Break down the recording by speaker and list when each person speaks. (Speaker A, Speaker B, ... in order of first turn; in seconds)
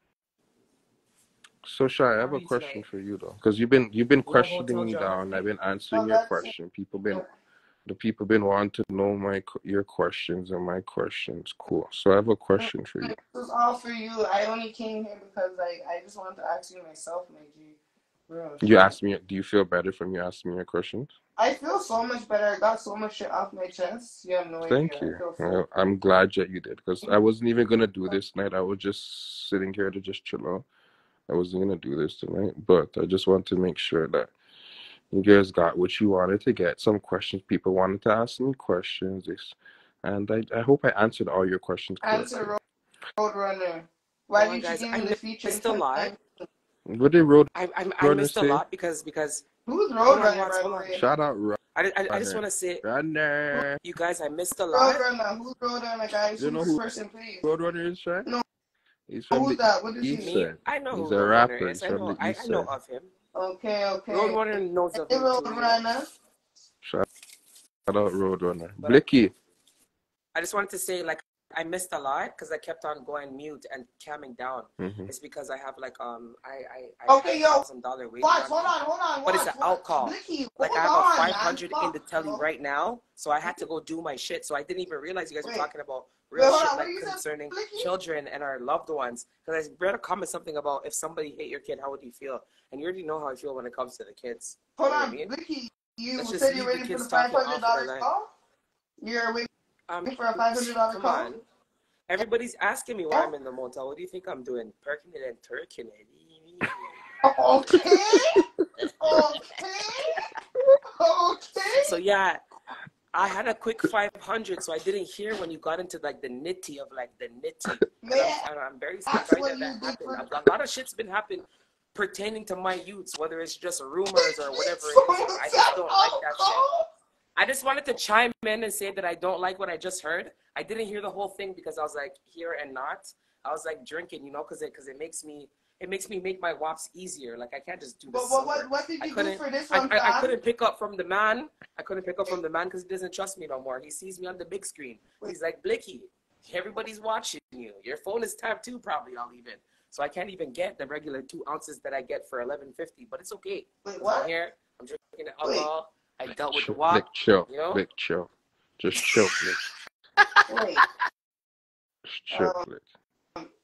Speaker A: 1.6-7.3, 7.9-13.1, 18.6-21.1, 24.7-30.7, 31.3-34.3, 35.1-42.5, 46.9-48.6, 50.9-53.8, 56.4-56.8, 57.4-58.3, 59.1-62.7, 67.9-69.3, 74.8-75.1, 108.1-108.4, 156.5-159.6, 162.1-162.8
Speaker B: 2.2-2.9, 4.2-5.5, 44.4-46.1, 47.5-49.5, 50.0-51.0, 51.8-52.8, 53.5-55.0, 60.2-63.1, 64.1-65.8, 70.3-78.7, 79.2-95.3, 96.2-98.1, 99.9-101.4, 102.1-106.9, 111.8-112.4, 113.1-126.6, 127.4-157.8
Speaker C: 5.9-6.5, 12.6-18.9, 21.4-25.6, 42.0-42.6, 43.2-46.5, 49.7-51.0, 54.7-57.5, 59.3-60.4, 63.3-66.1, 77.1-77.7, 78.2-82.5, 85.4-85.7, 86.3-87.9, 94.8-98.3, 99.0-99.5, 100.1-101.3, 107.2-108.4, 109.0-110.2, 111.0-112.0, 118.0-118.4, 119.1-120.4, 124.1-126.8, 138.1-140.4, 153.8-154.3, 155.4-155.7, 160.5-160.8, 162.3-162.6